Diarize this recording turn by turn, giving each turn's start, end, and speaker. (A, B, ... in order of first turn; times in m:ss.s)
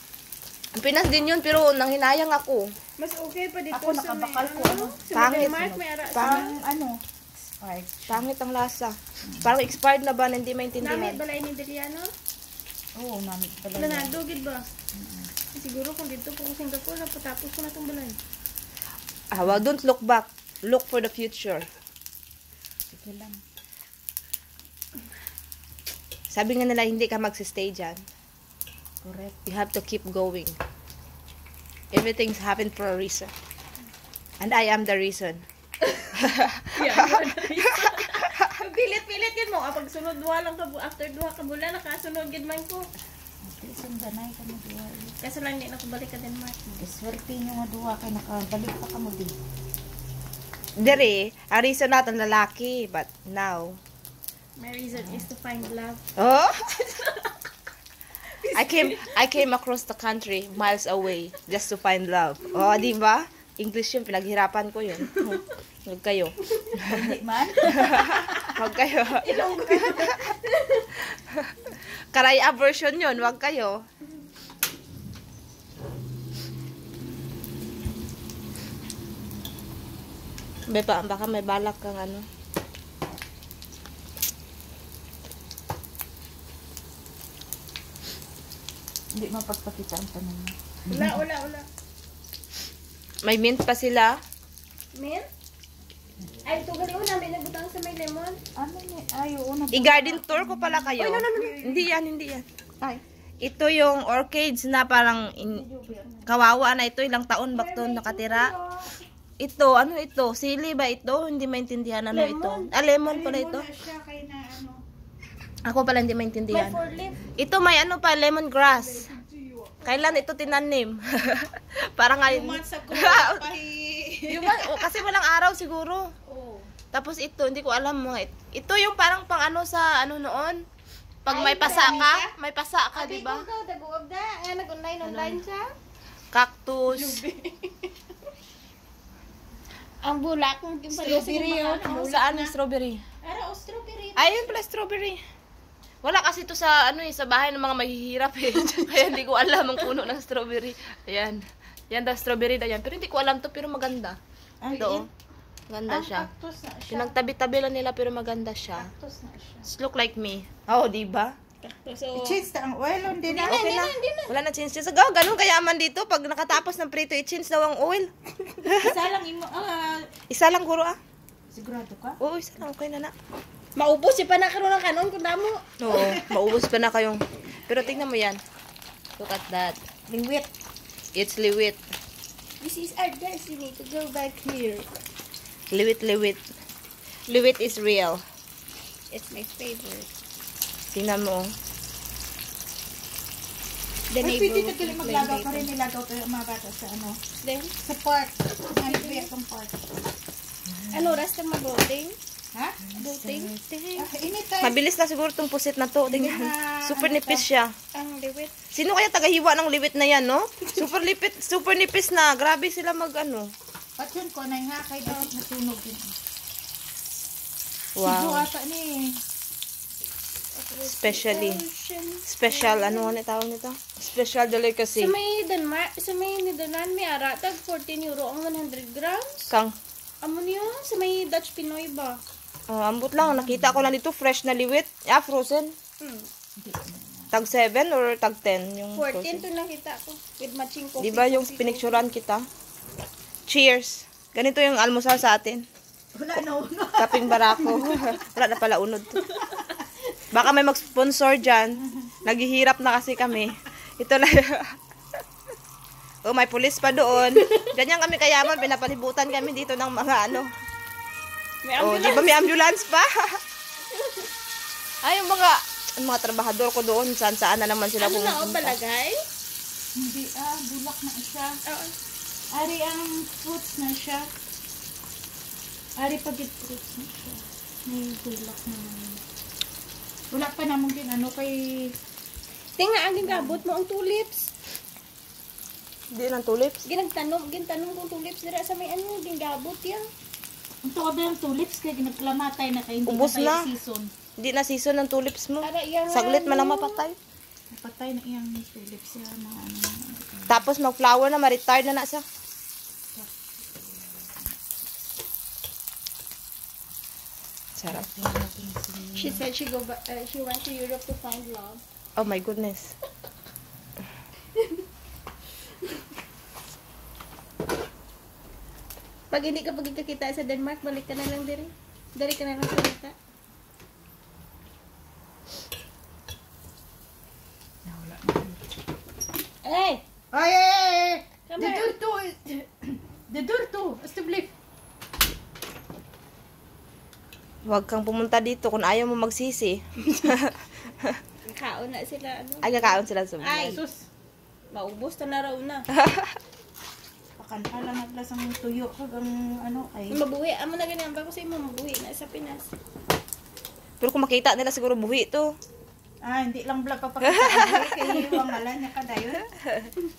0:00.8-0:02.7 A
0:03.0-0:06.5 B
0:03.7-0:08.3 C
0:05.1-0:06.4 A
0:08.1-0:11.2 A
0:09.2-0:09.5 C
0:10.8-0:12.1 B
0:13.0-0:14.2 C
0:13.8-0:14.7 B
0:14.9-0:15.3 C
0:15.5-0:18.2 B
0:19.3-0:21.7 A
0:19.4-0:19.7 C
0:22.9-0:23.4 C
0:26.3-0:28.0 A
0:29.0-0:29.4 C
0:29.4-0:30.6 A
0:31.9-0:33.3 A
0:34.4-0:35.4 A
0:36.1-0:37.6 A
0:36.8-0:42.8 B
0:43.4-0:45.2 C
0:45.2-0:46.8 B
0:46.8-0:49.3 C
0:50.8-0:53.8 A
0:54.6-0:56.0 B
0:54.9-0:55.3 C
0:56.2-0:56.8 A
0:56.7-0:57.5 B
0:58.3-0:59.4 B
0:58.5-1:07.0 A
1:02.5-1:02.8 B
1:05.0-1:05.4 B
1:06.9-1:08.5 C
1:07.8-1:10.3 A
1:09.2-1:10.9 B
1:11.0-1:13.8 A
1:20.7-1:22.2 A
1:29.1-1:31.2 C
1:30.9-1:31.7 B
1:33.2-1:34.2 A
1:34.9-1:35.3 B
1:36.4-1:38.4 B
1:38.6-1:41.9 C
1:39.7-1:42.4 A
1:41.0-1:41.7 B
1:43.4-1:45.6 A
1:45.3-1:46.3 C
1:46.2-1:48.5 A
1:47.5-1:49.0 B
1:49.4-1:53.7 A
1:52.1-1:52.7 B
1:53.0-1:54.8 C
1:55.6-1:56.8 A
1:56.5-1:57.2 B
1:57.4-1:59.1 A
1:59.0-1:59.8 B
1:59.1-1:59.5 C
1:59.8-2:03.5 A
2:02.2-2:04.9 C
2:04.3-2:06.1 A
2:06.3-2:06.7 B
2:06.9-2:10.6 A
2:11.2-2:13.5 A
2:11.3-2:12.3 B
2:11.4-2:12.1 C
2:12.9-2:15.7 B
2:15.1-2:15.4 A
2:16.3-2:17.2 A
2:16.9-2:17.9 B
2:20.0-2:22.2 B
2:20.9-2:22.5 C
2:21.9-2:23.0 A
2:23.3-2:24.5 B
2:24.2-2:25.2 A
2:26.0-2:34.2 A
2:34.6-2:35.1 C
2:34.7-2:35.1 A
2:35.7-2:36.3 A
2:35.9-2:37.1 C
2:36.9-2:38.9 A
2:38.8-2:39.7 C
2:39.6-2:41.3 A
2:41.6-2:42.4 B
2:42.1-2:43.8 C
2:43.3-2:44.3 B
2:43.5-2:48.1 A
2:48.6-2:48.9 A
2:48.8-2:50.1 C
2:50.3-2:51.0 A
2:51.5-2:52.2 C
2:52.2-2:53.1 A
2:53.8-2:55.6 B
2:55.8-2:58.4 A
2:55.9-2:56.4 C
2:59.2-2:59.8 A
3:00.1-3:00.5 C
3:01.1-3:01.8 A
3:02.6-3:04.9 B
3:05.7-3:06.4 A
3:07.3-3:08.2 A
3:09.1-3:10.1 B
3:10.9-3:11.5 A
3:14.1-3:15.7 B
3:14.2-3:17.2 C
3:17.4-3:17.7 B
3:17.8-3:19.8 C
3:18.7-3:19.3 B
3:20.9-3:22.2 B
3:22.5-3:24.8 C
3:22.9-3:24.1 B
3:24.6-3:27.7 A
3:26.1-3:27.4 C
3:27.9-3:28.5 B
3:28.7-3:33.5 A
3:34.0-3:36.1 C
3:38.0-3:38.5 A
3:38.0-3:39.2 C
3:40.5-3:43.1 B
3:40.8-3:41.6 A
3:42.3-3:45.1 A
3:45.0-3:49.5 B
3:49.5-3:49.8 A
3:50.2-3:52.2 B
3:52.7-3:55.7 A
3:53.2-3:53.9 C
3:56.0-3:56.3 B
3:56.6-3:57.4 C
3:57.3-3:59.4 A
3:59.0-4:02.0 B
4:01.0-4:02.4 A
4:03.5-4:05.6 A
4:06.2-4:08.1 C
4:07.0-4:09.2 A
4:09.2-4:09.8 B
4:09.5-4:09.8 C
4:10.3-4:14.7 A
4:11.8-4:12.1 C
4:16.2-4:20.5 A
4:17.2-4:17.7 B
4:21.6-4:22.4 B
4:21.8-4:23.4 A
4:23.8-4:24.3 B
4:25.0-4:28.8 A
4:28.0-4:29.2 B
4:30.0-4:31.6 C
4:31.6-4:31.9 B
4:32.5-4:34.3 C
4:36.0-4:39.2 C
4:40.3-4:42.0 C
4:42.8-4:44.5 B
4:43.2-4:43.6 C
4:46.1-4:46.8 A
4:46.8-4:50.0 B
4:50.8-4:54.1 C
4:53.0-4:53.7 A
4:54.4-4:57.2 A
4:55.6-4:57.0 B
4:57.7-5:00.6 C
5:00.5-5:02.2 A
5:03.1-5:05.1 C
5:07.8-5:08.0 A
5:07.9-5:09.4 C
5:09.1-5:11.8 B
5:12.2-5:12.9 A
5:14.5-5:14.8 B
5:19.3-5:23.1 B
5:27.8-5:28.6 C
5:29.6-5:30.0 B
5:30.3-5:34.5 C
5:31.5-5:31.9 B
5:37.7-5:41.2 A
5:41.5-5:43.8 B
5:42.6-5:43.8 A
5:43.6-5:44.0 C
5:44.7-5:45.8 B
5:46.0-5:46.3 A
5:47.4-5:50.2 C
5:50.1-5:52.7 B
5:54.0-5:55.5 A
5:56.2-5:59.4 C
5:57.2-5:57.8 A
5:58.0-5:58.6 B
5:59.4-5:59.9 A